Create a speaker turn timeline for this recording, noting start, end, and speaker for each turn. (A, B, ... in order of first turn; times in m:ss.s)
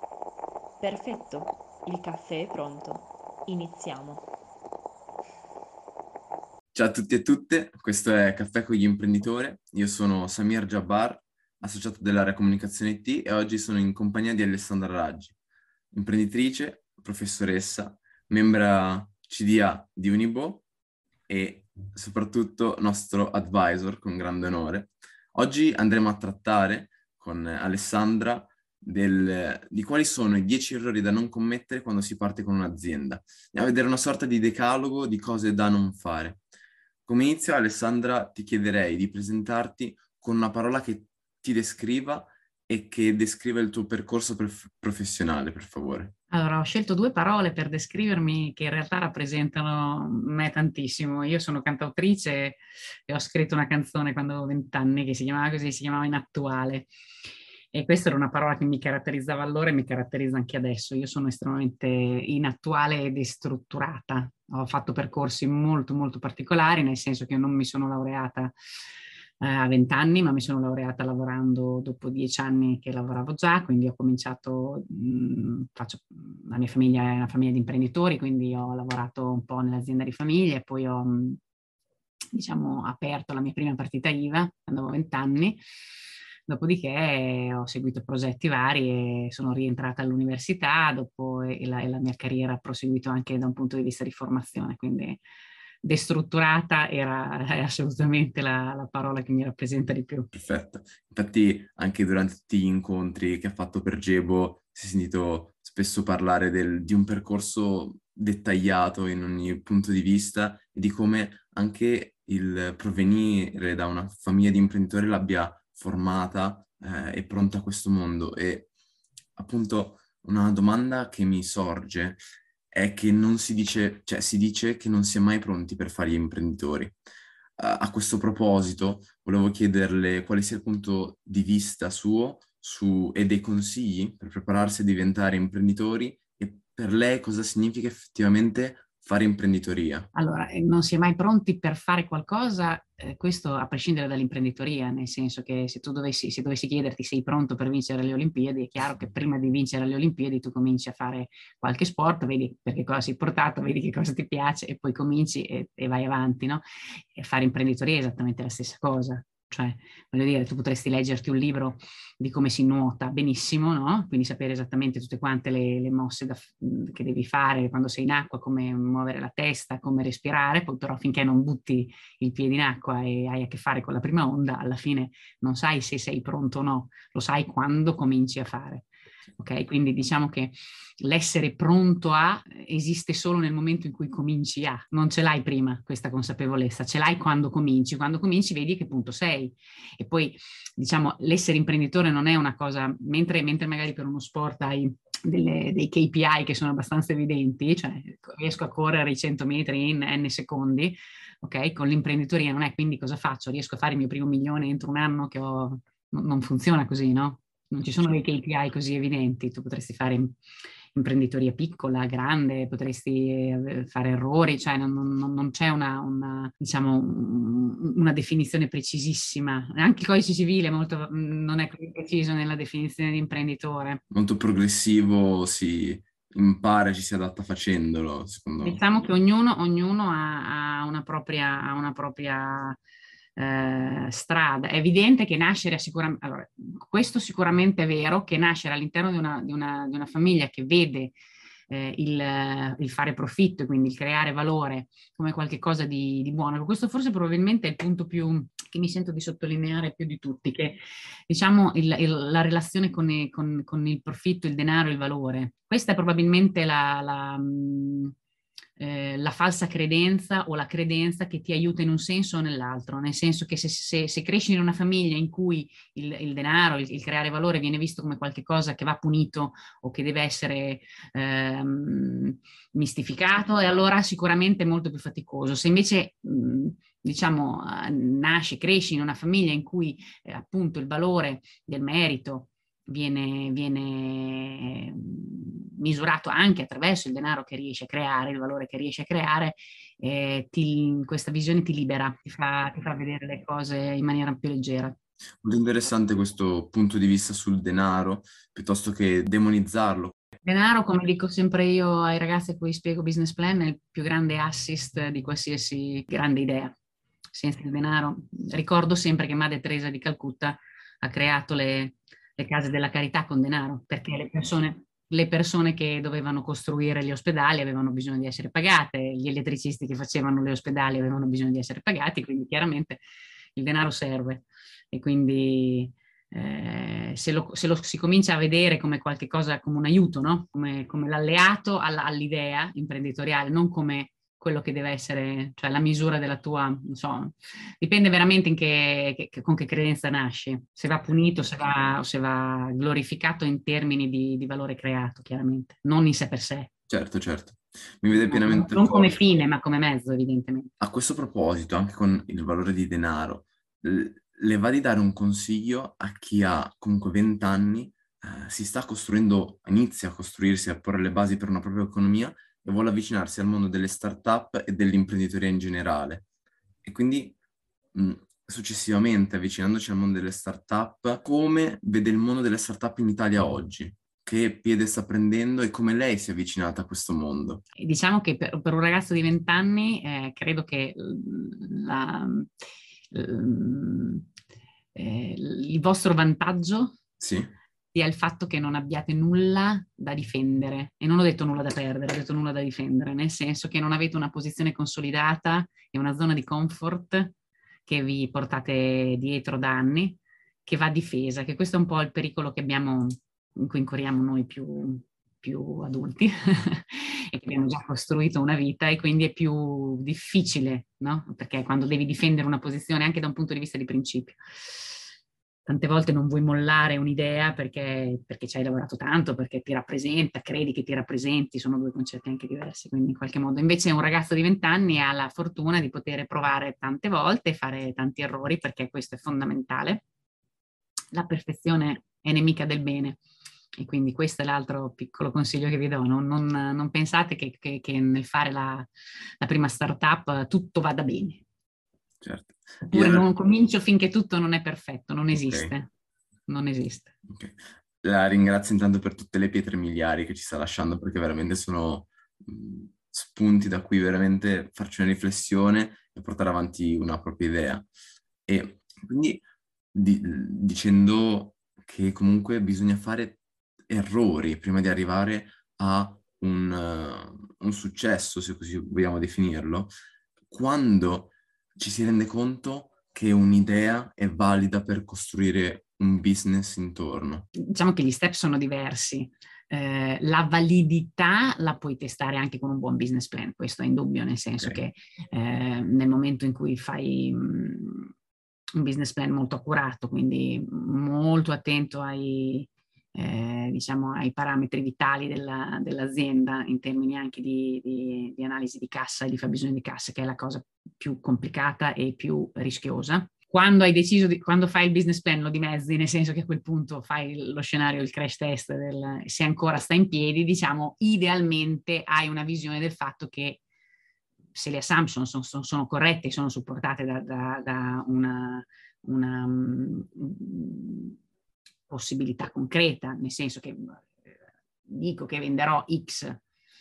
0:00.8-0:04.3 A
0:06.7-0:15.3 B
0:15.9-0:20.6 B
0:21.3-0:36.4 B
0:37.1-0:46.1 B
0:46.3-0:56.9 C
0:57.7-1:08.5 C
1:09.4-1:21.4 C
1:22.3-1:25.6 C
1:26.5-1:35.2 C
1:35.8-1:40.3 C
1:40.3-1:58.7 B
1:59.4-2:02.2 B
2:02.7-2:07.0 B
2:07.6-2:20.1 B
2:20.1-2:36.6 C
2:37.2-2:58.9 C
2:59.4-3:30.4 C
3:31.0-3:44.0 C
3:44.1-3:48.8 B
3:48.6-3:52.8 C
3:53.4-4:01.1 C
4:01.7-4:18.1 C
4:18.8-4:55.0 C
4:55.4-5:00.1 B
5:00.4-5:06.8 C
5:07.3-5:23.0 C
5:23.6-5:46.7 C
5:46.9-5:49.2 B
5:48.2-5:50.7 C
5:50.8-6:06.2 B
6:06.8-6:07.4 B
6:07.9-6:17.6 B
6:17.8-6:22.5 C
6:23.1-6:24.3 C
6:25.0-6:27.0 C
6:27.2-6:27.5 B
6:27.9-6:37.3 C
6:37.9-6:54.4 C
6:55.7-7:10.0 C
7:11.1-7:13.2 C
7:13.8-7:18.9 C
7:19.4-7:21.4 C
7:22.2-7:23.3 B
7:22.9-7:25.9 C
7:25.3-7:25.7 B
7:26.5-7:27.1 C
7:27.3-7:37.9 B
7:38.5-7:39.4 B
7:39.9-7:49.9 B
7:50.5-7:57.5 B
7:57.6-8:08.1 C
8:08.8-8:33.6 C
8:34.5-8:41.2 C
8:41.9-8:44.3 C
8:44.9-8:46.4 C